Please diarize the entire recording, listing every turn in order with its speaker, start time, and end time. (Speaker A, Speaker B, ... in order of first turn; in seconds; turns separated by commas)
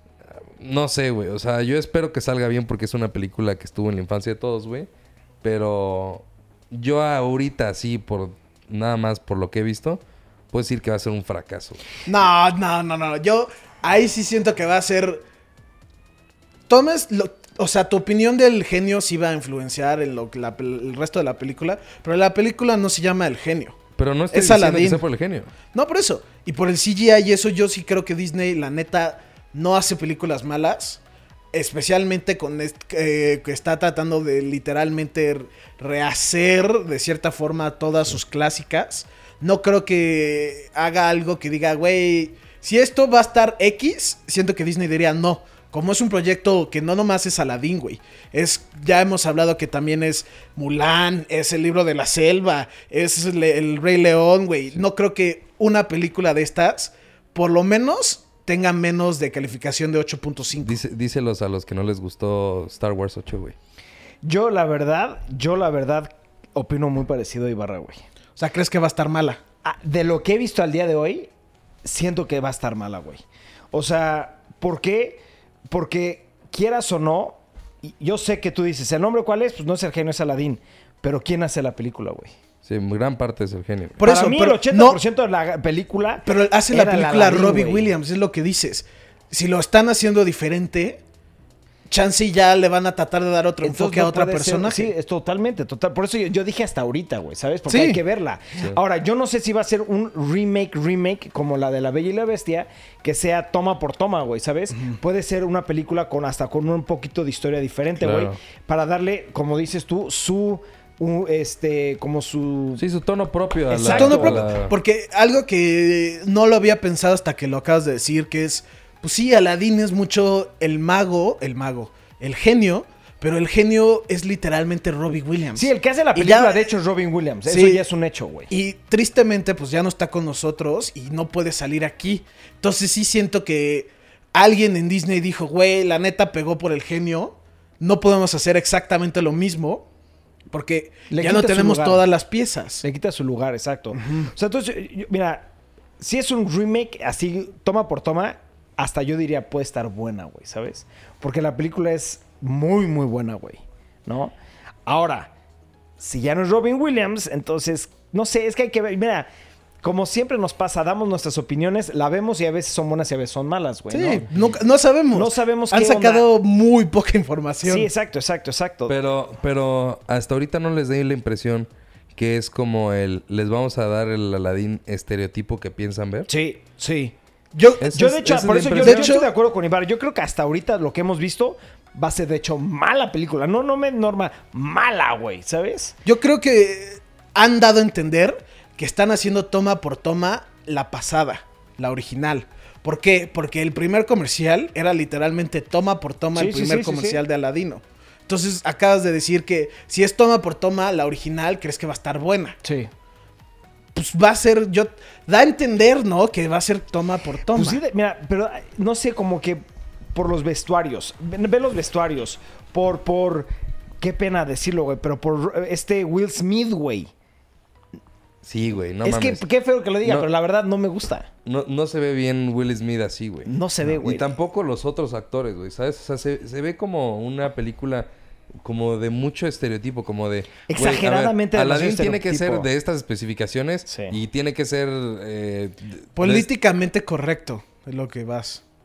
Speaker A: 0.3-4.9, Speaker A: 5.4-11.8, Speaker B: 12.1-15.2, Speaker B: 16.7-23.8, Speaker A: 24.0-25.5, Speaker B: 24.3-25.0, Speaker B: 25.7-31.0, Speaker B: 31.5-60.8, Speaker A: 60.6-63.5, Speaker C: 64.2-68.0, Speaker B: 68.4-69.4, Speaker C: 69.6-71.3, Speaker C: 71.8-82.3, Speaker A: 82.7-84.0, Speaker B: 84.0-85.0, Speaker C: 84.0-87.9, Speaker B: 86.3-91.0, Speaker B: 91.9-94.9, Speaker C: 93.6-112.8, Speaker B: 97.7-98.0, Speaker B: 104.7-105.0, Speaker A: 108.0-108.4, Speaker A: 112.8-114.7, Speaker C: 113.7-114.5, Speaker B: 113.8-126.7, Speaker C: 125.6-128.5, Speaker B: 127.5-127.8, Speaker B: 128.5-139.9, Speaker B: 140.5-142.8, Speaker C: 141.1-142.0, Speaker C: 142.8-145.5, Speaker B: 144.0-144.3, Speaker C: 146.0-154.3, Speaker C: 154.9-155.3, Speaker C: 156.0-159.3, Speaker C: 159.8-164.3, Speaker B: 163.9-167.9, Speaker C: 165.1-166.2, Speaker C: 167.6-168.9, Speaker A: 168.9-176.3, Speaker C: 176.3-177.1, Speaker B: 177.6-179.3, Speaker A: 177.8-179.1, Speaker C: 177.8-185.9, Speaker B: 186.1-202.6, Speaker C: 196.3-197.2, Speaker C: 202.6-202.9, Speaker B: 203.9-207.8, Speaker C: 207.5-213.5, Speaker C: 214.0-217.1, Speaker A: 218.4-219.4, Speaker C: 219.0-221.3, Speaker A: 221.4-228.1, Speaker C: 223.5-224.3, Speaker A: 228.6-236.5, Speaker C: 230.7-232.7, Speaker C: 233.9-234.2, Speaker B: 236.2-238.6